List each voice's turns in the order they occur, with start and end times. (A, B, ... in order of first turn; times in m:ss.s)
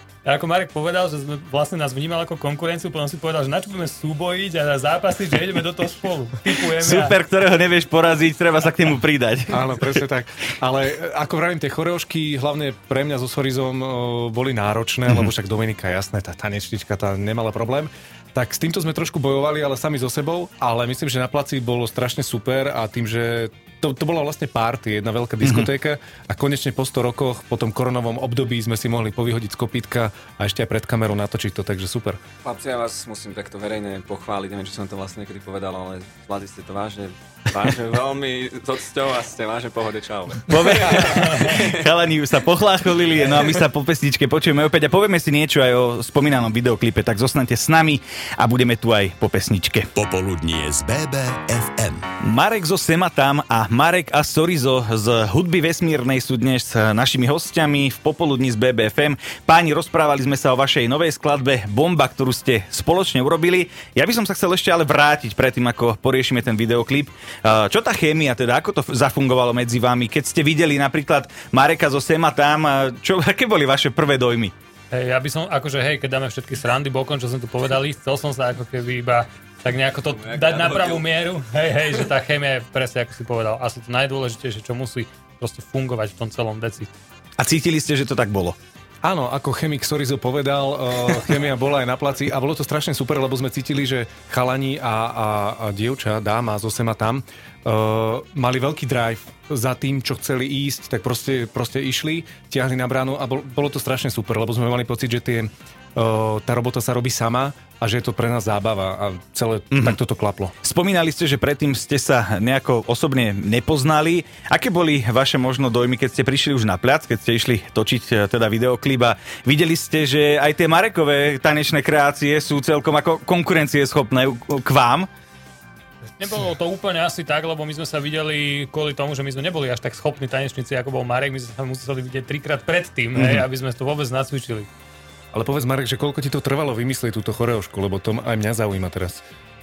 0:00.2-0:07.2 A
0:06.8-0:10.0 B
0:09.5-0:32.2 C
0:25.4-0:25.7 B
0:32.4-0:41.9 D
0:40.5-0:49.9 B
0:49.9-0:52.0 E
0:52.2-1:14.5 B
1:14.9-1:26.9 A
1:20.1-1:21.0 D
1:27.4-1:28.6 B
1:29.0-1:50.5 C
1:49.7-1:50.0 B
1:50.6-2:05.1 B
2:06.2-2:14.7 A
2:13.2-2:13.4 B
2:15.3-2:19.2 C